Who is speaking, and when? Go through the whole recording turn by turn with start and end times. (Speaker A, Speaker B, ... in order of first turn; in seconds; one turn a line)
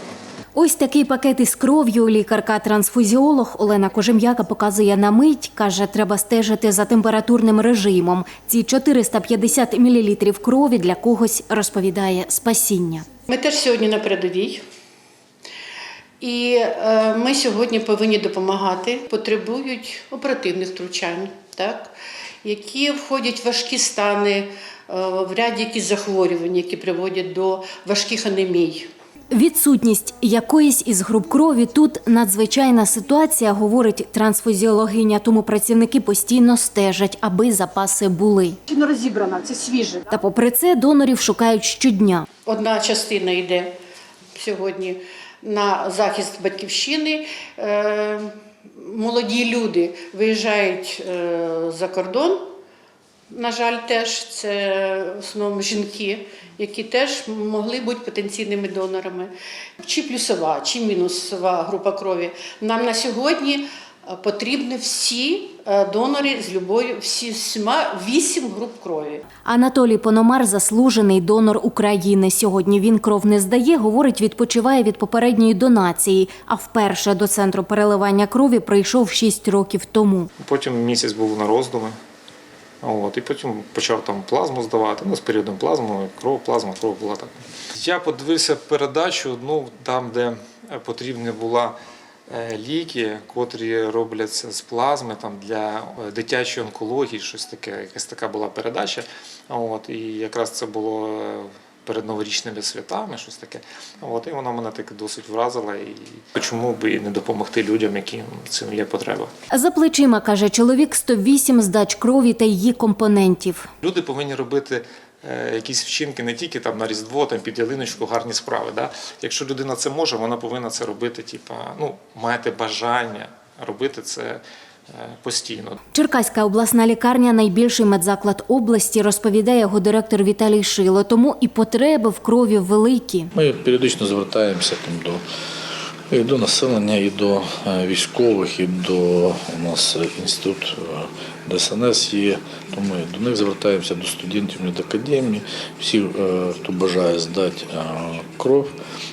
Speaker A: 0.5-13.1
Speaker B: 13.3-14.6
Speaker B: 16.2-21.9
Speaker B: 22.4-28.9
Speaker A: 29.3-38.6
Speaker B: 38.7-40.1
Speaker A: 40.1-42.3
Speaker B: 42.5-43.7
Speaker B: 44.4-48.3
Speaker B: 48.8-52.4
Speaker B: 53.3-69.2
Speaker A: 69.4-80.3
Speaker C: 80.4-82.0
Speaker C: 82.8-91.8
Speaker C: 92.3-109.3
Speaker A: 109.5-113.7
Speaker C: 113.8-125.8
Speaker A: 125.9-133.3
Speaker D: 133.3-135.2
Speaker D: 136.1-148.7